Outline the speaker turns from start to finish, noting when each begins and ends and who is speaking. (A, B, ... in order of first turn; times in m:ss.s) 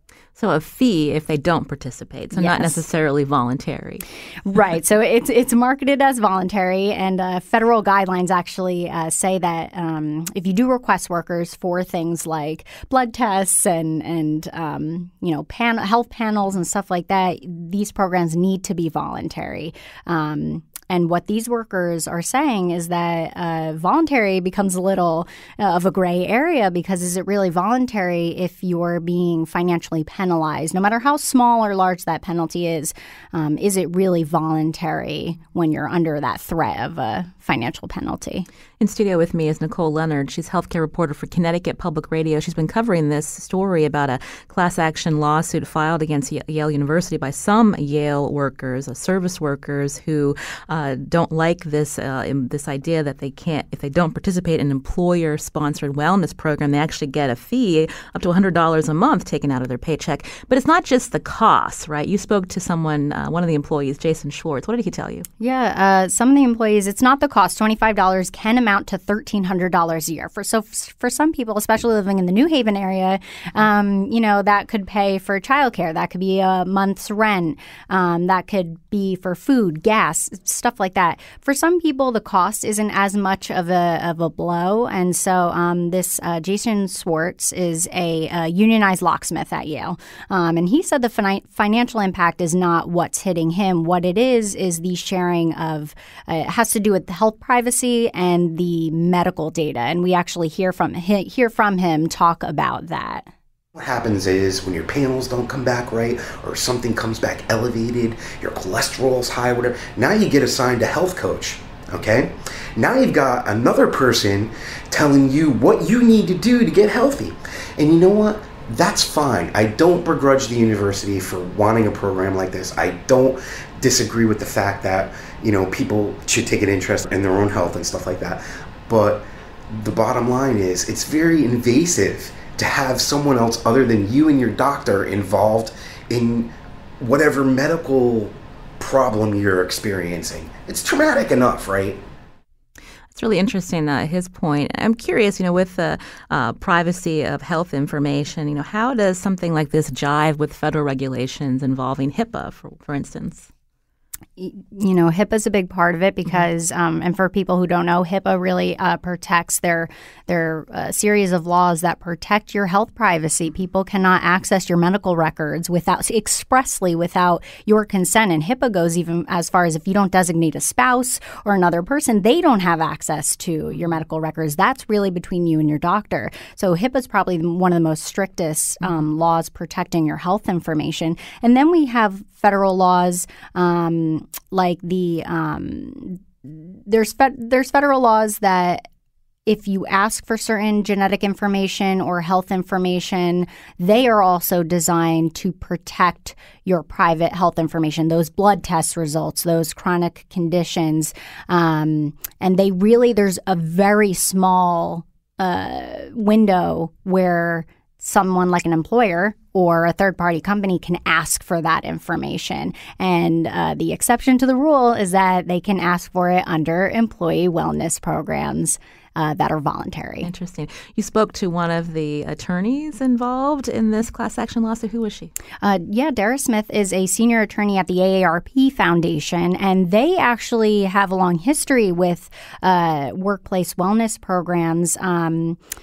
0:00.4-0:04.0 A
0:02.3-0:02.8 B
0:04.4-0:38.5 B
0:38.8-1:05.2 A
1:05.4-1:43.3 B
1:43.7-2:22.0 C
2:23.1-2:33.5 A
2:34.4-3:08.8 B
3:09.4-3:40.3 B
3:40.2-3:45.3 A
3:45.6-3:55.6 B